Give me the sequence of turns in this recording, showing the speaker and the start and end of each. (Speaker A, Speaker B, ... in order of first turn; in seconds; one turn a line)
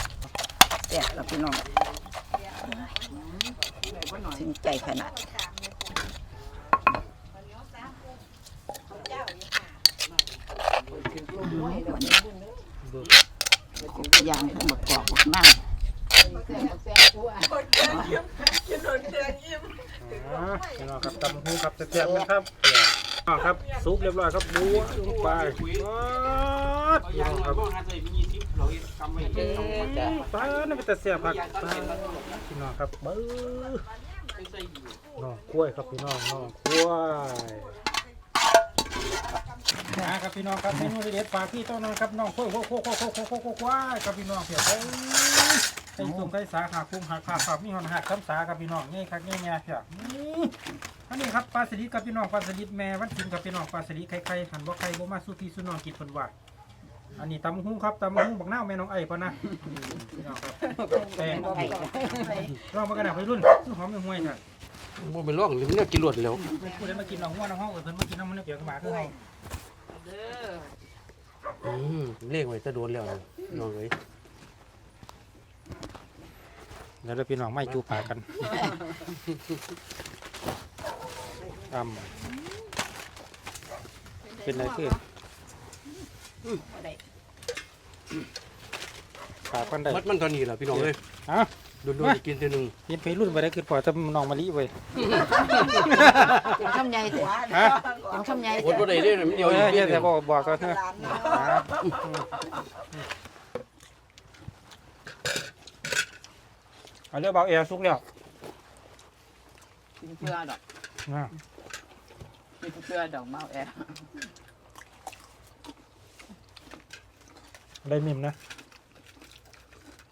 Speaker A: 0.9-1.7
Speaker B: 2.3-3.3
Speaker A: 3.1-5.2
Speaker C: 3.6-4.0
Speaker B: 4.4-6.1
Speaker B: 7.3-8.2
Speaker B: 8.9-9.9
Speaker C: 10.1-11.7
Speaker D: 10.9-12.6
Speaker A: 11.2-12.2
Speaker E: 12.8-13.1
Speaker D: 13.8-14.9
Speaker A: 13.8-15.6
Speaker D: 16.1-17.6
Speaker B: 16.2-16.8
Speaker B: 17.4-21.3
Speaker A: 17.8-18.2
Speaker E: 20.0-27.6
Speaker A: 21.9-22.3
Speaker C: 23.5-26.0
Speaker C: 27.0-32.4
Speaker E: 29.2-33.9
Speaker D: 29.3-30.2
Speaker B: 33.4-34.5
Speaker C: 34.4-35.1
Speaker B: 35.0-36.5
Speaker E: 35.2-37.8
Speaker B: 37.2-40.0
Speaker E: 39.9-50.5
Speaker E: 51.1-56.3
Speaker E: 57.2-64.4
Speaker A: 60.6-62.6
Speaker D: 61.2-62.3
Speaker B: 61.3-62.6
Speaker C: 65.0-66.6
Speaker E: 66.5-69.1
Speaker B: 66.6-67.2
Speaker C: 71.6-74.0
Speaker E: 77.0-78.8
Speaker E: 81.7-82.1
Speaker B: 84.2-85.0
Speaker E: 84.4-85.0
Speaker E: 89.5-90.0
Speaker C: 89.9-91.0
Speaker E: 90.7-92.2
Speaker C: 91.8-92.8
Speaker E: 92.9-96.3
Speaker C: 95.0-95.8
Speaker A: 95.0-99.8
Speaker D: 95.9-99.5
Speaker E: 97.5-97.8
Speaker C: 98.6-100.2
Speaker E: 99.3-102.3
Speaker B: 100.2-101.8
Speaker A: 101.0-102.5
Speaker E: 107.1-108.0
Speaker D: 110.0-110.6
Speaker E: 111.1-111.3
Speaker D: 112.6-114.1
Speaker E: 117.8-118.4